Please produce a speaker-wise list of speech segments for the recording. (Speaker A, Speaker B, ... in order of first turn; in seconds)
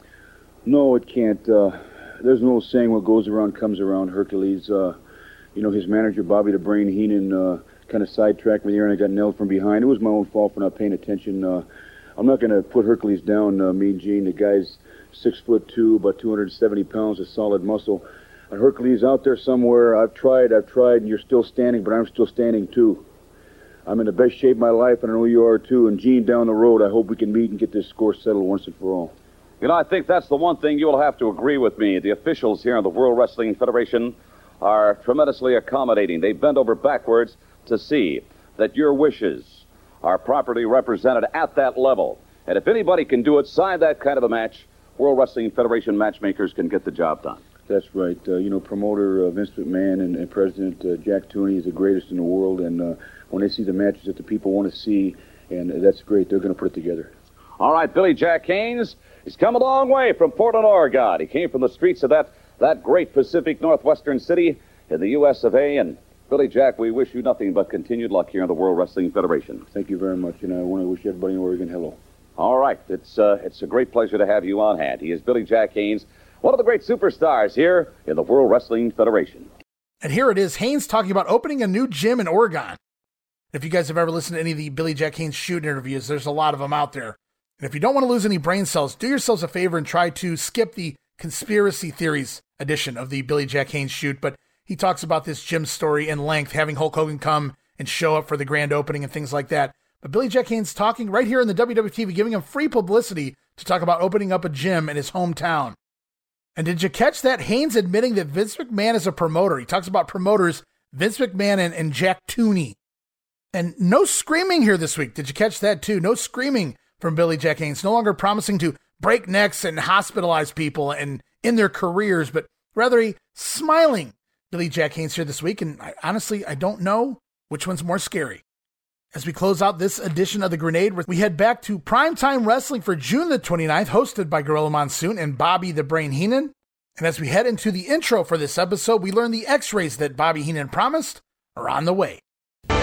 Speaker A: 0.7-5.0, 5.5-23.1, 23.9-29.1, 47.7-57.1, 69.7-72.0
Speaker B: 29.6-47.4, 57.6-69.6, 72.4-79.5
Speaker C: 80.0-82.8, 83.5-105.8, 106.6-112.8, 113.5-128.4, 129.1-142.2